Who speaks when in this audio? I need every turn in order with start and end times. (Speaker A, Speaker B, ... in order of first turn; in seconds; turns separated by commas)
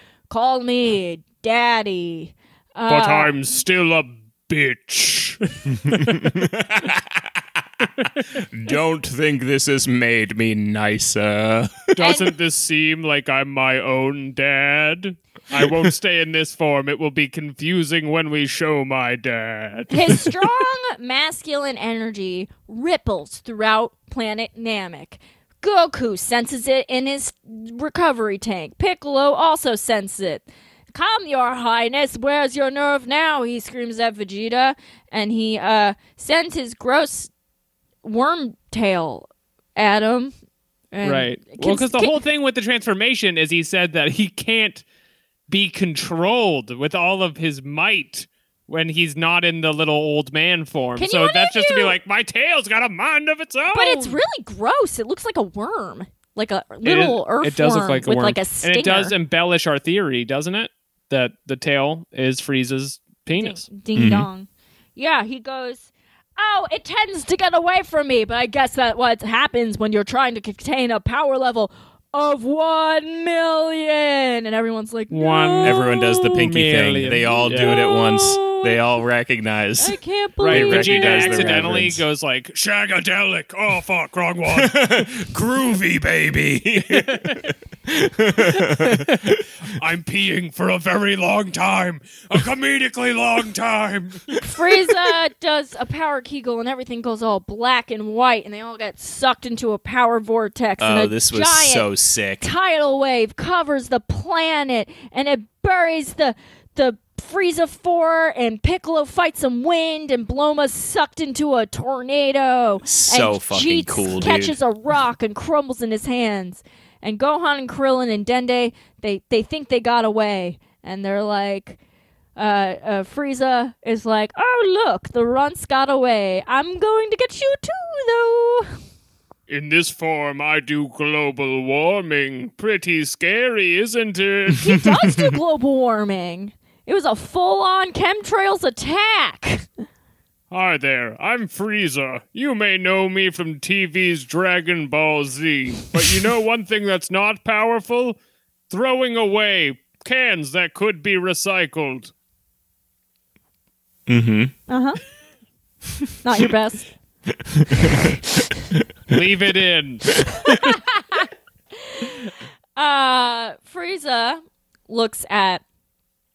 Speaker A: 0.3-3.3, Speaker B: 2.9-6.4, Speaker C: 5.8-12.0, Speaker B: 8.0-8.4, Speaker B: 12.0-20.3, Speaker A: 12.0-12.3, Speaker C: 15.6-15.9, Speaker A: 19.9-37.3, Speaker A: 38.0-40.3, Speaker A: 40.9-42.2, Speaker B: 41.0-44.8, Speaker B: 45.5-54.2, Speaker A: 51.0-52.0, Speaker A: 53.7-59.1, Speaker B: 56.8-63.7, Speaker A: 63.4-76.4, Speaker C: 64.0-64.3, Speaker B: 75.1-77.8, Speaker C: 75.6-82.0, Speaker A: 77.5-78.8, Speaker A: 79.8-81.7, Speaker B: 80.4-85.1, Speaker C: 84.5-89.5, Speaker B: 86.9-87.5, Speaker B: 88.4-94.7, Speaker A: 94.4-101.9, Speaker C: 100.8-102.5, Speaker A: 102.4-121.8, Speaker C: 112.8-114.6, Speaker A: 122.4-128.8, Speaker B: 129.5-134.8, Speaker A: 134.6-139.7, Speaker B: 140.5-148.2, Speaker B: 148.7-152.1, Speaker C: 154.1-154.5, Speaker A: 154.7-155.0, Speaker A: 156.2-156.9, Speaker C: 157.3-158.8, Speaker B: 159.1-160.1, Speaker A: 160.3-161.3, Speaker A: 161.8-165.6